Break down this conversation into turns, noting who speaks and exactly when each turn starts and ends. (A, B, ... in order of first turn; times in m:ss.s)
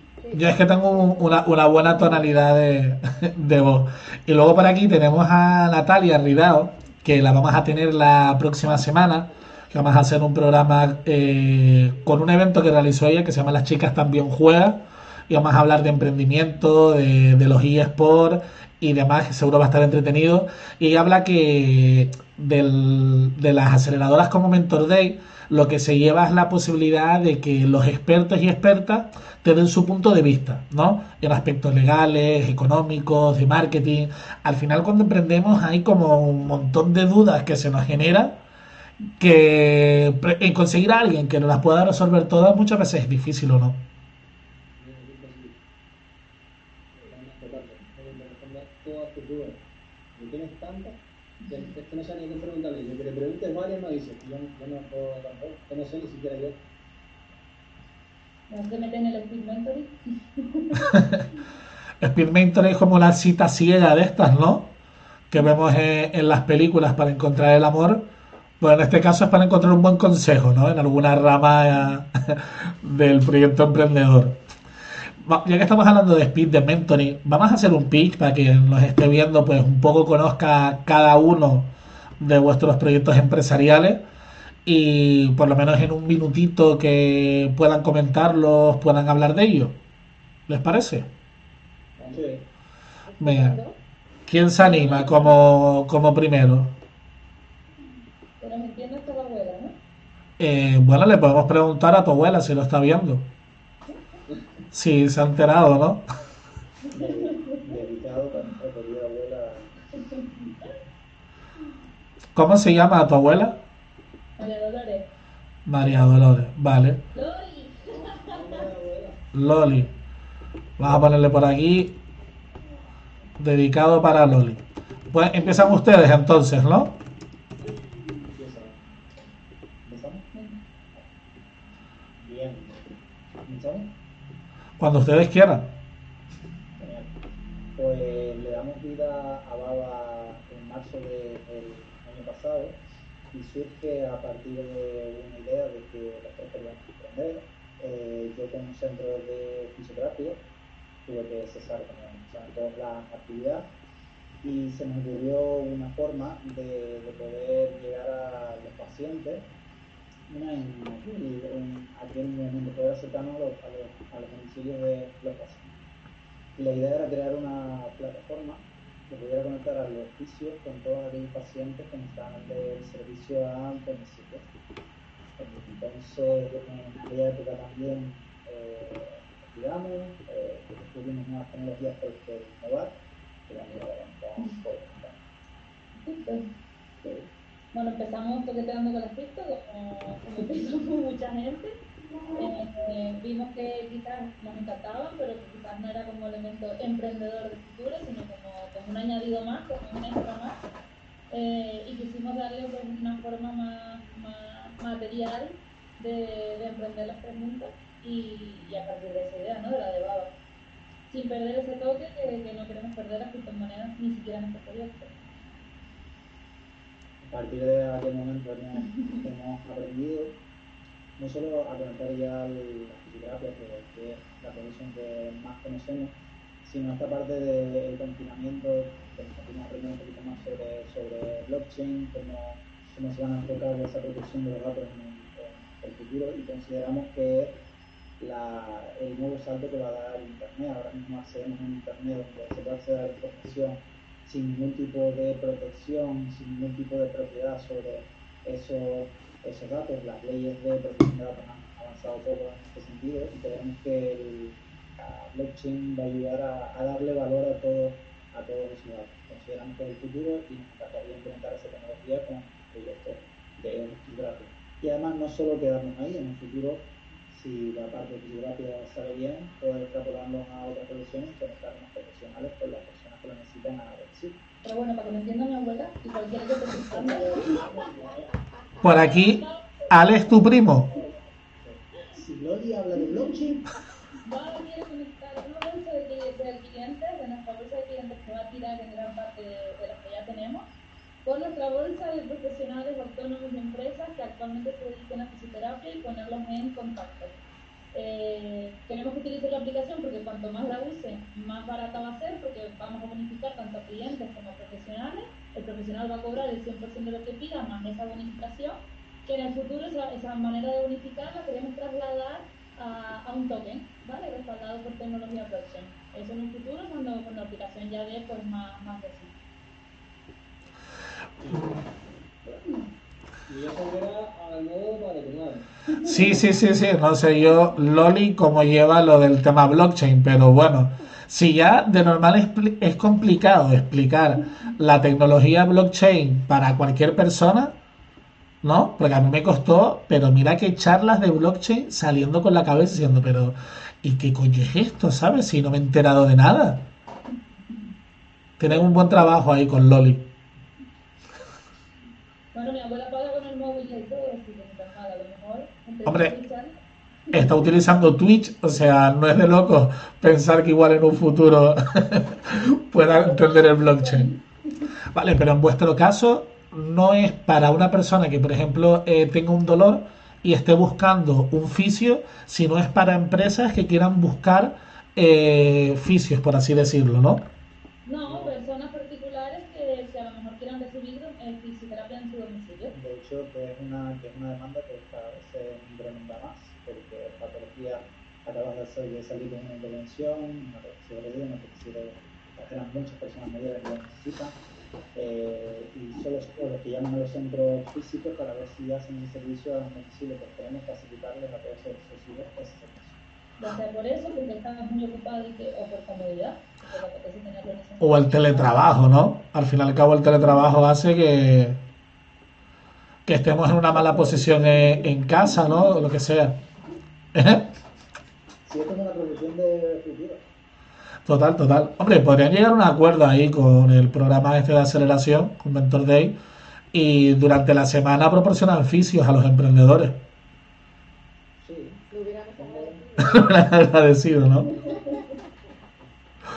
0:00.2-0:02.3 A
0:00.3-0:38.4 B
0:39.2-0:43.8 B
0:44.8-0:45.6 C
0:47.0-0:49.6 C
0:50.2-0:56.6 C
0:58.5-1:00.9 D
1:00.9-1:01.2 B
1:02.0-1:04.7 B
1:05.3-1:08.0 B
1:08.6-1:14.4 B
1:15.2-1:24.0 B
1:24.7-1:29.8 B
1:30.5-1:31.1 B
1:32.0-1:32.4 C
1:33.1-1:33.8 A
1:33.2-1:33.6 B
1:34.3-1:36.7 B
1:34.6-1:35.4 D
1:38.4-1:39.7 D
1:40.4-1:43.3 B
1:44.7-1:46.0 B
1:46.9-1:47.6 D
1:46.9-1:49.7 E
1:52.4-1:53.6 B
1:54.4-1:55.1 D
1:55.7-1:57.0 B
1:57.1-1:58.6 D
1:57.9-1:59.2 C
1:59.3-1:59.9 B
2:00.8-2:01.9 B
2:03.4-2:07.0 B
2:09.8-2:10.2 E
2:12.2-2:12.8 E
2:13.5-2:13.9 E
2:14.8-2:15.7 B
2:16.8-2:17.1 E
2:17.8-2:22.8 E
2:23.3-2:30.4 E
2:31.1-2:33.7 E
2:34.4-2:39.5 E
2:40.3-2:45.8 E
2:46.6-2:54.5 E
2:55.4-3:03.0 E
3:03.5-3:05.2 E
3:06.0-3:06.4 D
3:07.7-3:11.7 D
3:12.4-3:20.6 D
3:21.3-3:30.3 D
3:31.1-3:35.2 D
3:37.2-3:40.4 E
3:41.2-3:57.6 E
3:58.2-4:34.4 E
4:34.6-4:37.8 D
4:36.7-4:38.2 E
4:38.8-4:40.9 B
4:38.8-4:40.4 D
4:40.5-4:43.6 E
4:44.2-4:50.7 D
4:51.2-4:57.4 D
4:57.9-5:19.3 D
5:21.4-5:21.8 C
5:23.5-5:25.7 C
5:25.9-5:26.4 D
5:26.0-5:37.8 B
5:38.6-5:46.8 B
5:48.6-5:50.2 B
5:52.5-5:56.7 D
5:56.1-5:56.3 B
5:57.3-5:57.8 D
5:57.3-6:04.3 B
6:03.0-6:04.9 D
6:05.1-6:17.4 B
6:18.0-6:22.9 D
6:22.9-6:34.6 E
6:35.2-6:43.2 E
6:43.6-6:48.9 D
6:48.0-6:51.8 B
6:53.3-6:56.6 B
6:57.3-6:57.7 B
6:58.7-7:00.4 E
7:01.2-7:06.4 B
7:06.9-7:10.2 B
7:11.6-7:12.0 E
7:12.1-7:13.7 A
7:12.6-7:13.0 E
7:13.2-7:14.7 B
7:14.8-7:15.4 A